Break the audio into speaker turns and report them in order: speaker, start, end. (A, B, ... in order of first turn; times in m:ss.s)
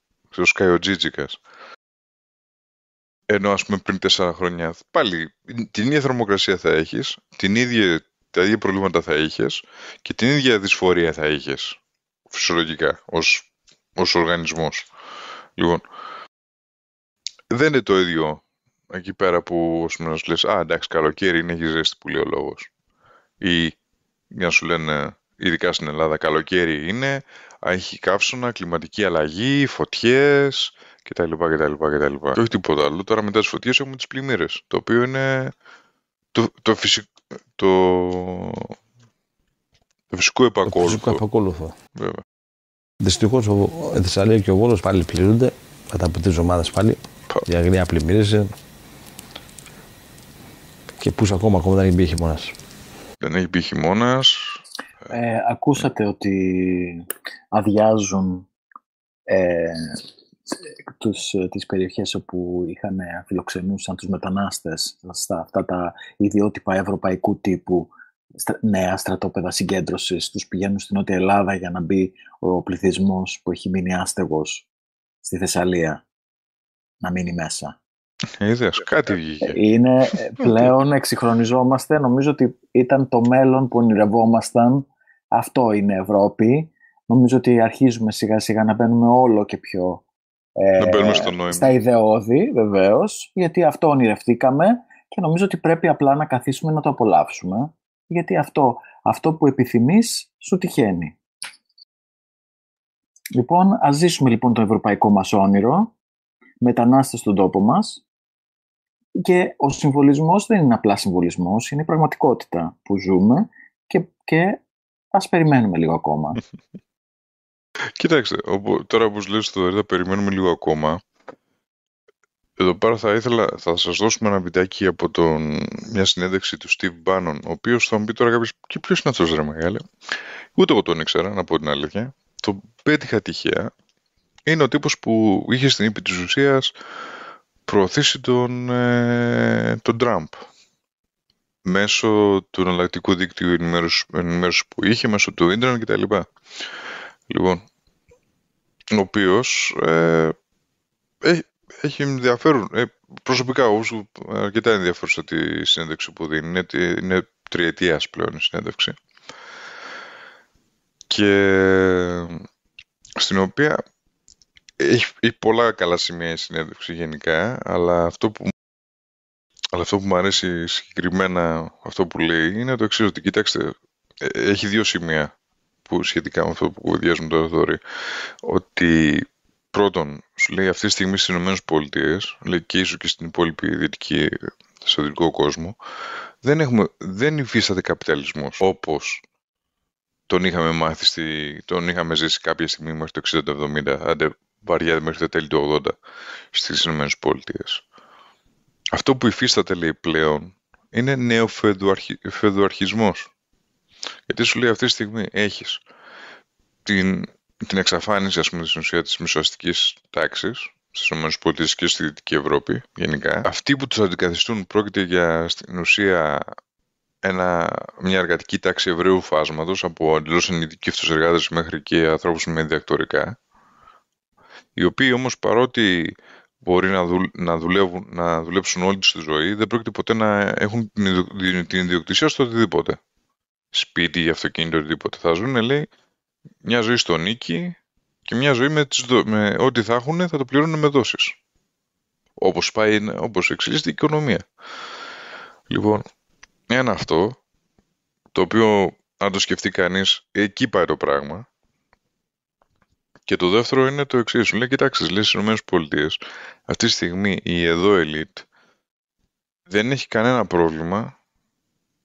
0:00.3-0:01.4 A
0:03.3-0:11.8 A
0:12.3-0:14.9 A
0:15.6-0:15.8 A
0:17.5-0:22.7 A
0:23.4-0:23.8 A
0:24.3-0:35.6 A
0:36.3-0:38.8 A
0:40.1-0:41.2 A
0:40.7-0:41.8 B
0:42.0-0:42.2 A
0:43.0-0:48.5 B
0:51.0-0:52.5 B
0:53.2-0:54.6 A
0:55.1-0:58.5 C
0:59.3-1:14.7 C
1:15.2-1:16.0 C
1:17.0-1:17.8 C
1:18.4-1:19.6 A
1:19.4-1:30.0 C
1:20.4-1:20.7 A
1:30.6-1:41.2 C
1:30.8-1:31.7 A
1:43.4-1:45.9 C
1:46.6-1:48.0 C
1:49.2-1:54.6 C
1:55.1-1:56.4 C
1:58.0-2:01.0 A
2:02.6-2:09.8 A
2:10.6-2:13.7 A
2:14.5-2:16.7 A
2:17.7-2:20.5 A
2:21.6-2:26.3 A
2:27.3-2:27.6 A
2:28.9-2:30.4 A
2:31.2-2:39.0 A
2:41.1-2:42.4 A
2:43.2-2:43.8 A
2:44.8-2:48.5 A
2:49.7-2:55.3 A
2:55.9-2:57.8 A
2:58.4-3:05.8 A
3:06.4-3:09.2 A
3:10.3-3:16.0 A
3:16.5-3:17.8 A
3:18.9-3:23.3 A
3:24.3-3:25.8 A
3:26.8-3:36.6 A
3:37.2-3:43.4 A
3:44.8-3:53.0 A
3:53.7-3:55.9 A
3:56.6-4:01.4 A
4:02.4-4:04.5 A
4:05.7-4:06.1 A
4:06.7-4:07.4 A
4:08.3-4:11.5 A
4:13.3-4:18.5 A
4:19.7-4:21.2 A